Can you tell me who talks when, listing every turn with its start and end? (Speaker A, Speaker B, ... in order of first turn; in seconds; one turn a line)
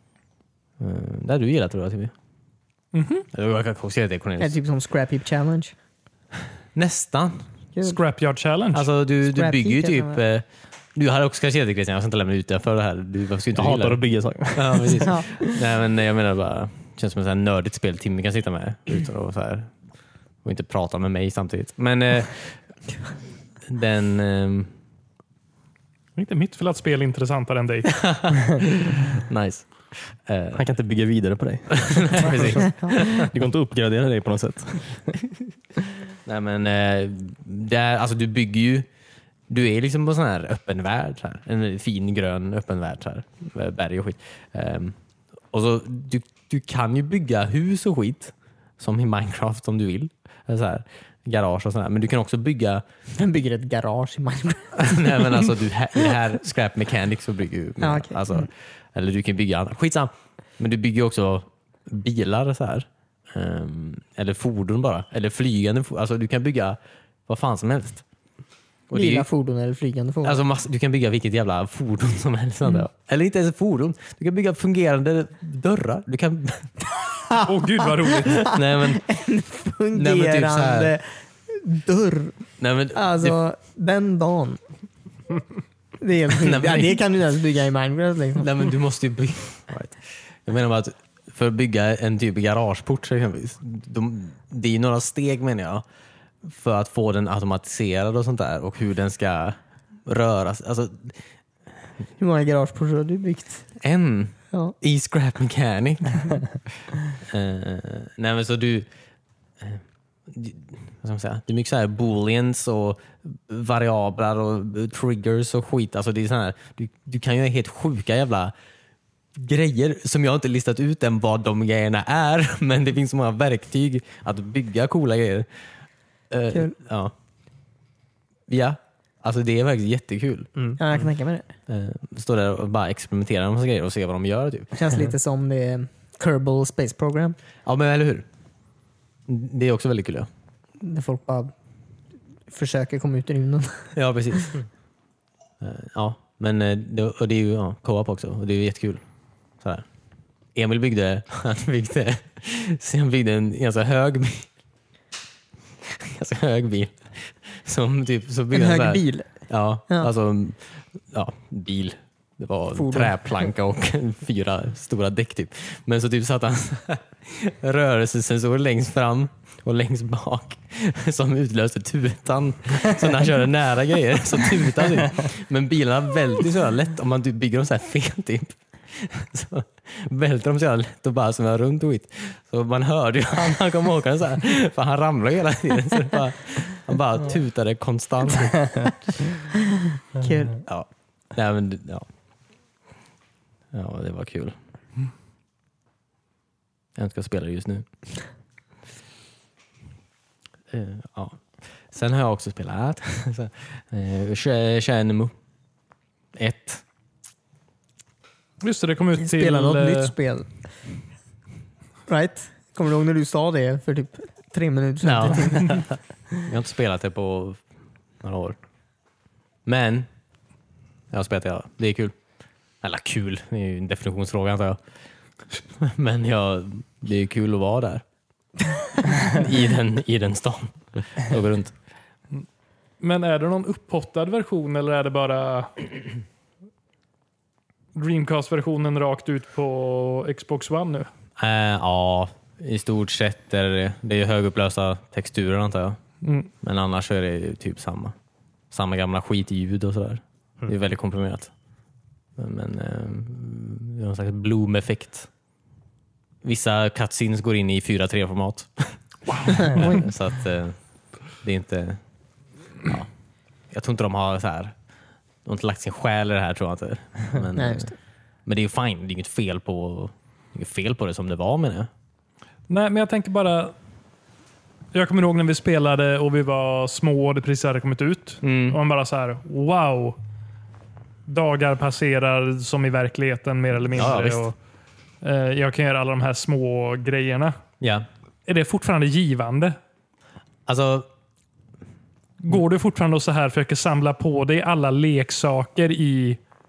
Speaker A: 0.8-2.1
Speaker B: 2.9-3.3
Speaker A: 3.3-4.5
Speaker C: 4.4-5.7
Speaker A: 6.7-7.4
Speaker B: 7.8-8.9
Speaker A: 8.7-19.7
Speaker C: 9.2-10.2
Speaker D: 13.5-15.3
Speaker A: 20.4-22.6
Speaker A: 23.7-24.7
Speaker B: 26.1-28.1
Speaker A: 27.9-30.6
Speaker D: 30.5-35.2
Speaker A: 31.7-33.3
Speaker A: 36.2-38.9
Speaker A: 39.5-45.0
Speaker A: 45.5-52.8
Speaker C: 53.1-55.5
Speaker A: 54.8-68.0
Speaker C: 57.8-58.5
Speaker A: 68.9-69.3
Speaker C: 68.9-70.4
Speaker A: 70.2-76.7
Speaker C: 77.0-82.3
Speaker B: 77.4-78.5
Speaker A: 78.5-79.0
Speaker A: 79.9-80.9
Speaker A: 82.6-83.4
Speaker C: 82.9-84.6
Speaker C: 86.0-88.7
Speaker A: 86.4-87.0
Speaker A: 88.4-95.8
Speaker A: 96.4-101.2
Speaker C: 102.2-103.6
Speaker A: 103.8-106.4
Speaker A: 107.2-108.9
Speaker A: 109.6-118.5
Speaker A: 119.3-125.5
Speaker A: 126.3-127.1
Speaker A: 128.5-130.5
Speaker C: 130.8-131.5
Speaker A: 131.7-134.9
Speaker C: 134.7-137.4
Speaker A: 137.6-138.2
Speaker A: 139.3-140.3
Speaker C: 140.8-141.5
Speaker C: 142.5-143.9
Speaker A: 143.9-144.6
Speaker A: 145.6-149.0
Speaker A: 149.6-149.8
Speaker A: 150.5-154.5
Speaker A: 155.9-189.1
Speaker C: 158.5-159.3
Speaker C: 162.7-163.2
Speaker C: 190.1-190.6
Speaker A: 190.6-192.1
Speaker A: 193.7-194.6
Speaker A: 196.9-197.8
Speaker A: 200.7-205.3
Speaker A: 206.3-206.8
Speaker B: 208.6-210.1
Speaker C: 209.2-210.5
Speaker C: 212.1-215.9
Speaker A: 215.0-215.8
Speaker A: 216.4-217.6
Speaker A: 218.2-218.6
Speaker A: 219.7-220.1
Speaker A: 221.1-222.1
Speaker A: 222.8-224.8
Speaker A: 225.7-228.0
Speaker A: 229.2-231.7
Speaker B: 233.0-235.9
Speaker B: 237.9-241.1
Speaker A: 241.4-246.0
Speaker B: 246.2-246.5
Speaker A: 246.6-248.1
Speaker A: 248.7-251.5
Speaker A: 252.4-255.3
Speaker A: 256.4-260.8
Speaker B: 259.3-259.7
Speaker A: 261.4-262.0
Speaker A: 263.7-264.7
Speaker A: 265.4-267.9
Speaker C: 267.6-267.9
Speaker A: 268.4-271.9
Speaker B: 272.7-273.7
Speaker B: 274.9-280.2
Speaker A: 278.4-278.8
Speaker B: 281.3-284.5
Speaker A: 283.9-284.5
Speaker B: 285.2-287.5
Speaker A: 287.8-288.1
Speaker B: 288.4-289.8
Speaker A: 290.7-291.1
Speaker B: 292.4-296.4